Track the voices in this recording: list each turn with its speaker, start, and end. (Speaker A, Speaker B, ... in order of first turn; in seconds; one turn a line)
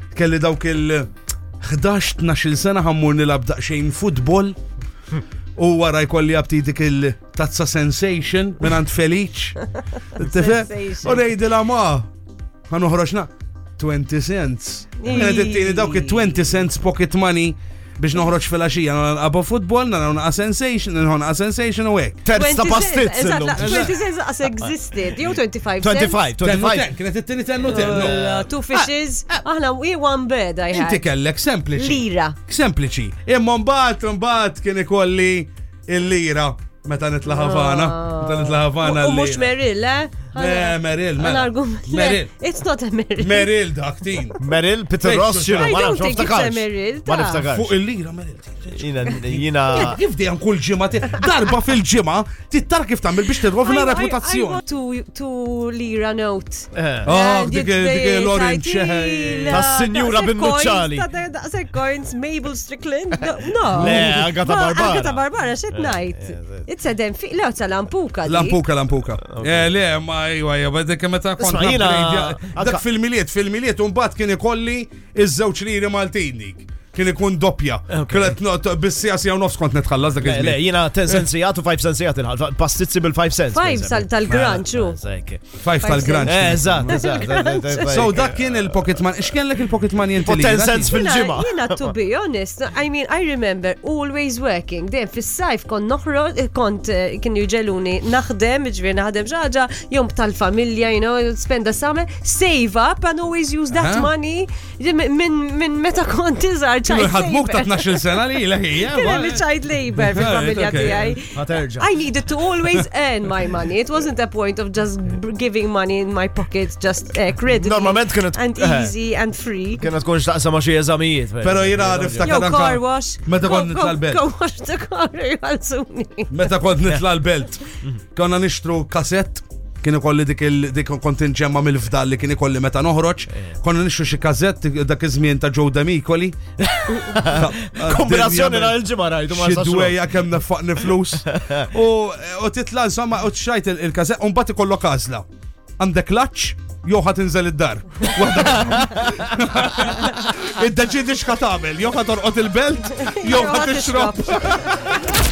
Speaker A: 0.1-1.1
Speaker A: 1.6-4.6
Speaker A: 5.6-9.6
Speaker B: 10.2-11.3
Speaker A: 10.2-12.1
Speaker A: 12.7-22.2
Speaker B: 15.0-16.3
Speaker C: 22.2-24.0
Speaker B: 22.3-26.2
Speaker A: 23.6-23.9
Speaker C: 25.8-26.9
Speaker A: 26.4-28.2
Speaker C: 27.6-28.5
Speaker B: 27.6-31.1
Speaker A: 30.7-39.5
Speaker B: 31.7-32.4
Speaker B: 37.3-43.5
Speaker A: 40.4-42.3
Speaker A: 43.2-44.4
Speaker C: 44.4-47.7
Speaker A: 45.0-46.0
Speaker B: 45.6-47.5
Speaker A: 47.5-54.6
Speaker C: 48.7-50.0
Speaker B: 53.6-68.6
Speaker C: 56.7-57.1
Speaker A: 57.1-59.6
Speaker C: 59.5-61.1
Speaker C: 63.7-66.7
Speaker A: 63.7-64.1
Speaker A: 68.2-81.2
Speaker C: 69.2-69.7
Speaker C: 71.4-72.8
Speaker C: 77.9-78.4
Speaker C: 80.2-89.0
Speaker B: 83.5-85.0
Speaker A: 85.6-91.0
Speaker B: 85.8-88.1
Speaker C: 90.2-91.9
Speaker B: 90.8-108.2
Speaker A: 103.7-104.1
Speaker A: 106.8-109.5
Speaker B: 108.8-119.9
Speaker A: 110.0-111.1
Speaker C: 111.0-111.9
Speaker C: 117.5-118.9
Speaker C: 119.8-122.5
Speaker A: 121.4-124.2
Speaker B: 122.2-126.5
Speaker A: 126.3-127.6
Speaker A: 128.2-136.4
Speaker C: 136.6-140.0
Speaker A: 137.2-138.8
Speaker A: 139.3-145.3
Speaker C: 141.2-141.7
Speaker A: 145.8-155.0
Speaker C: 148.7-149.2
Speaker B: 152.9-154.9